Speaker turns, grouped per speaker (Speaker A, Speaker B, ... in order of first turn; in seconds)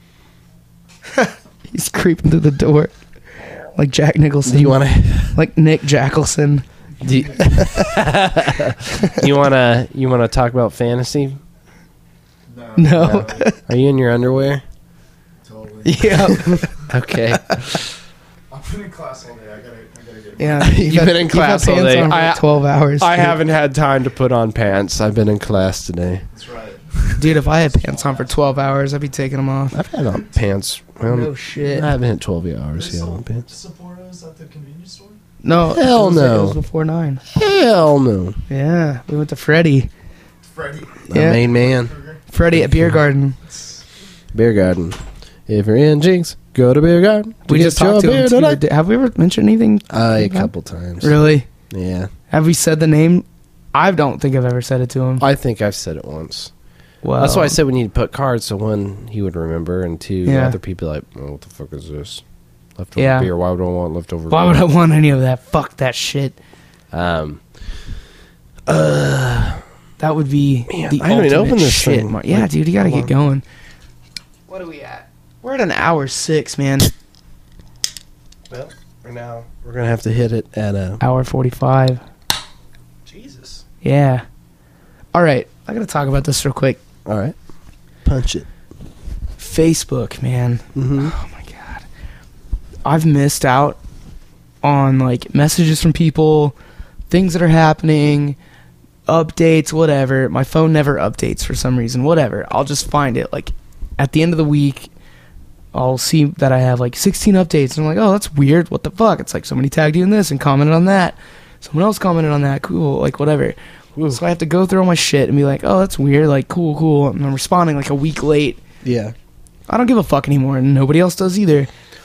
Speaker A: 1.1-2.9, 3.7-6.7, 7.5-8.0, 8.9-9.2, 12.8-13.6, 15.8-16.9, 17.4-17.8, 20.4-23.4, 27.2-29.8, 31.1-31.9, 35.4-37.2, 38.5-39.9, 41.1-41.4, 42.3-43.4, 47.5-51.5, 52.3-55.2, 57.0-57.6, 60.2-60.6, 63.0-63.3, 64.3-66.4, 70.0-73.4, 74.5-76.9, 81.0-82.0, 83.8-84.2, 85.1-86.8, 89.4-91.8, 92.8-93.8, 94.6-96.5, 97.1-98.4, 99.1-104.9, 105.7-113.6, 114.1-118.6, 119.7-121.7
Speaker B: 4.5-5.4, 7.0-11.4, 13.0-14.6, 16.3-17.9, 20.6-22.4, 23.0-26.2, 29.7-33.5, 35.6-36.6, 37.3-38.4, 41.1-41.9, 42.5-43.0, 44.3-48.6, 49.9-52.1, 55.2-56.5, 57.2-62.2, 62.8-64.7, 66.9-67.4, 68.7-69.6, 70.7-73.1, 78.5-81.0, 83.1-83.6, 87.0-87.4, 88.0-88.5, 90.8-91.2, 114.0-114.2, 118.8-119.1
Speaker C: 12.5-13.5, 15.4-16.8, 18.5-20.6, 26.3-28.4, 32.8-35.2, 40.4-42.2